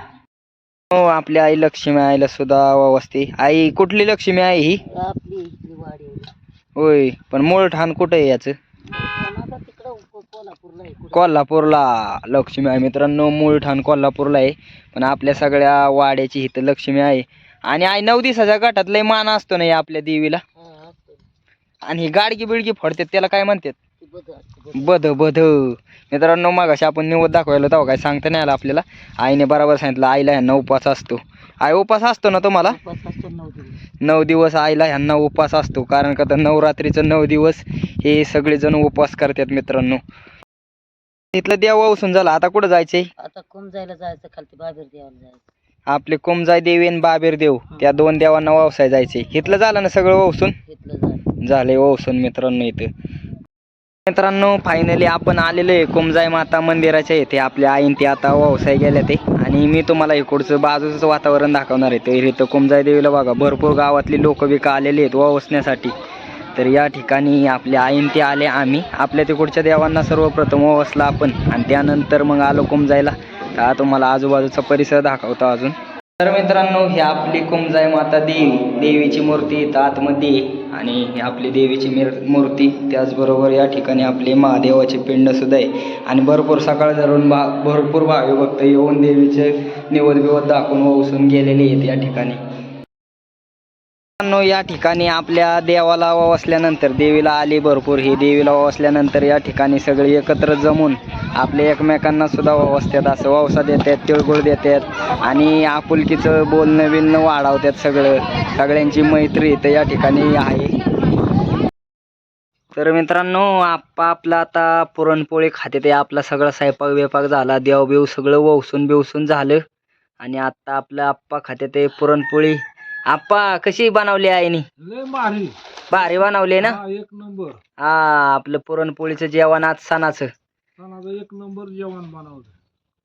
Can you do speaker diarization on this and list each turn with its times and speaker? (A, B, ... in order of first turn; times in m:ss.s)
0:00.9-0:04.8 A
0:04.9-0:06.3 B
0:06.8-0:08.6 A
0:08.9-0:11.3 B
0:11.1-0:20.4 A
0:20.6-0:21.2 B
0:21.9-0:23.8 A
0:24.0-0:25.1 B
0:24.8-0:32.8 A
0:32.7-0:33.8 B
0:34.0-0:40.0 A
0:41.3-0:43.1 A
0:43.2-0:45.5 B
0:45.9-0:50.6 A
0:50.7-0:51.3 B
0:51.4-0:52.9 A
0:54.1-1:06.0 A
1:06.6-1:32.4 A
1:34.2-1:50.8 A
1:52.7-1:59.6 A
2:00.2-2:04.6 A
2:04.8-2:07.6 C
2:05.9-2:06.8 A
2:07.8-2:10.3 A
2:10.8-2:12.5 C